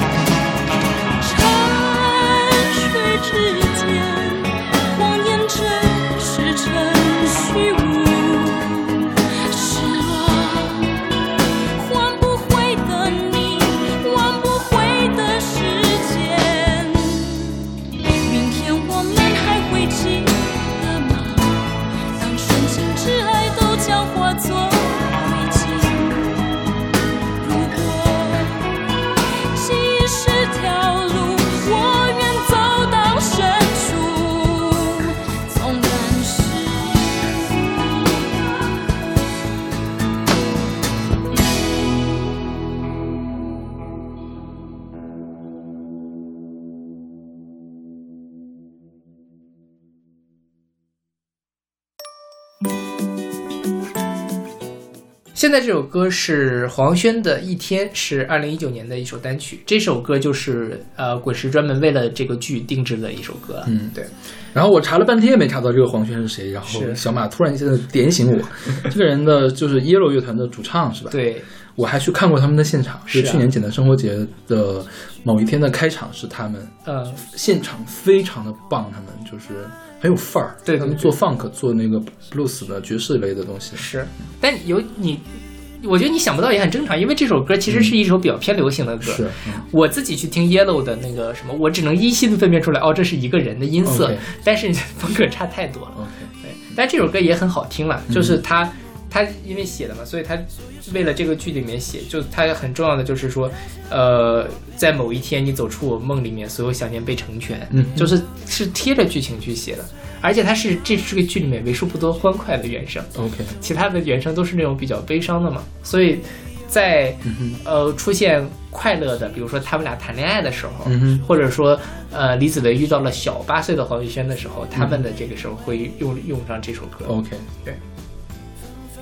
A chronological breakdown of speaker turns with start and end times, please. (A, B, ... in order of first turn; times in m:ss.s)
0:01.2-0:17.7 A
0:18.2-0:26.6 A
0:27.4-0:28.8 A
0:29.5-0:38.5 A
0:55.4-1:04.1 B
1:03.7-1:04.0 C
1:04.5-1:11.2 C
1:06.7-1:07.0 B
1:11.1-1:11.5 B
1:11.8-1:23.9 C
1:13.1-1:13.5 B
1:16.9-1:17.2 B
1:20.6-1:21.1 B
1:23.8-2:07.8 B
1:27.7-1:28.0 C
1:29.0-1:29.6 C
1:33.8-1:34.2 C
1:36.0-1:36.3 C
1:38.1-1:38.4 C
1:47.7-1:48.1 C
1:53.2-1:53.6 C
1:57.3-1:57.6 C
2:00.8-2:01.2 C
2:07.1-2:07.5 C